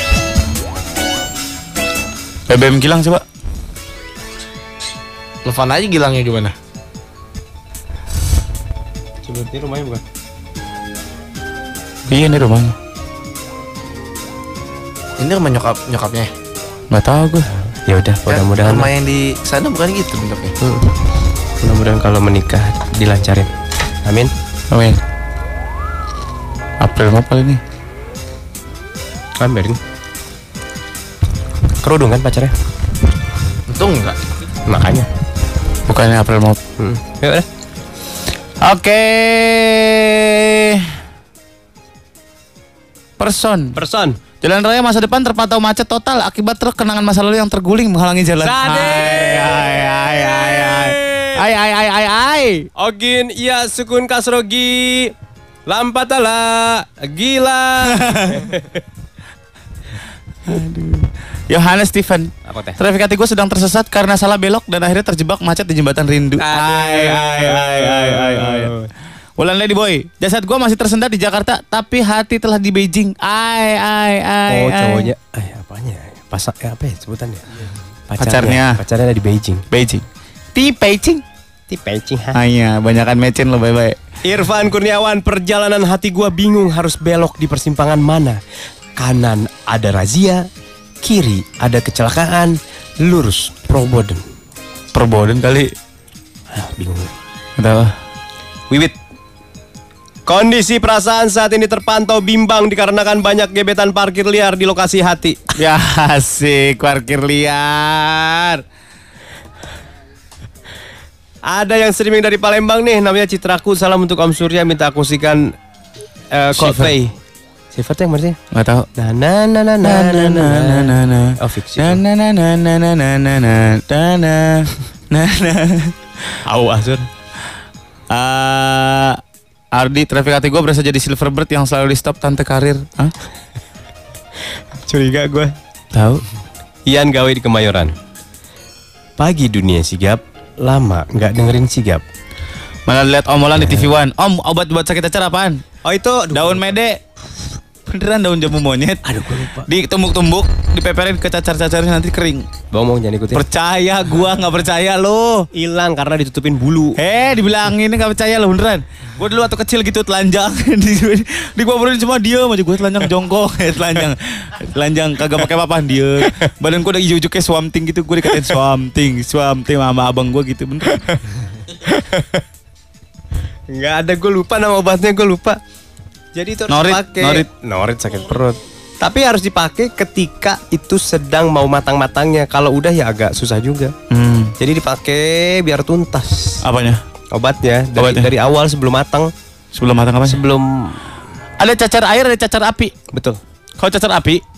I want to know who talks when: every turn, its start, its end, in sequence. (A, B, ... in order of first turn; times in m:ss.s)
0:02.5-0:03.2 A
0:05.4-0:06.5 B
0:09.2-0:10.0 C
0:12.1-0:12.8 A
0:15.2-0:16.3 B
0:16.9-0:17.5 A
0:17.5-0:18.9 C
0:18.3-0:20.6 B
0:20.6-0:21.0 C
0:21.6-0:23.5 C
0:24.0-0:24.3 C
0:24.7-0:25.0 A
0:26.8-0:27.6 A
0:29.4-0:29.8 C
0:31.8-0:32.5 C
0:33.7-0:34.2 B
0:34.7-0:35.1 C
0:35.9-0:36.6 A
0:36.8-0:37.5 C
0:38.6-0:40.9 A
0:43.2-0:43.8 A
0:43.7-0:44.2 C
0:44.4-0:52.7 A
0:48.4-0:51.3 C
0:52.8-0:55.1 C
0:55.7-0:58.8 C
0:58.0-0:58.5 A
1:00.5-1:08.8 A
1:02.5-1:02.8 C
1:06.4-1:08.9 C
1:09.4-1:15.1 A
1:14.5-1:17.5 C
1:18.1-1:19.6 C
1:18.2-1:18.8 A
1:19.7-1:21.2 A
1:21.7-1:22.4 C
1:22.3-1:24.0 A
1:24.2-1:28.4 C
1:29.0-1:30.4 C
1:31.0-1:34.2 C
1:34.9-1:35.7 A
1:36.5-1:37.1 C
1:37.6-1:37.9 A
1:38.7-1:39.0 C
1:40.2-1:45.5 C
1:45.6-1:48.6 A
1:51.4-1:55.5 C
1:56.3-1:57.1 C
1:56.5-1:57.0 A
1:57.7-1:58.4 C
1:58.5-1:58.9 A
1:59.0-2:02.0 C
1:59.8-2:06.0 A
2:06.4-2:07.1 C
2:08.1-2:09.2 A
2:09.7-2:13.1 A
2:14.7-2:16.2 C
2:16.9-2:17.9 C
2:19.2-2:22.0 C
2:22.9-2:25.6 A
2:25.8-2:26.8 C
2:26.3-2:27.0 A
2:27.9-2:32.5 A
2:29.0-2:29.7 C
2:32.7-2:33.4 C
2:33.3-2:35.5 A
2:35.5-2:37.0 C
2:37.0-2:51.2 A
2:51.7-2:52.4 C
2:53.7-2:55.6 C
2:56.3-3:03.9 C
2:56.7-2:57.5 A
3:04.1-3:04.5 A
3:04.6-3:06.6 C
3:06.6-3:07.0 A
3:07.3-3:09.3 C
3:08.0-3:08.3 A
3:09.7-3:10.4 A
3:10.2-3:11.0 C
3:11.6-3:12.9 A
3:13.1-3:13.4 C
3:13.8-3:14.4 A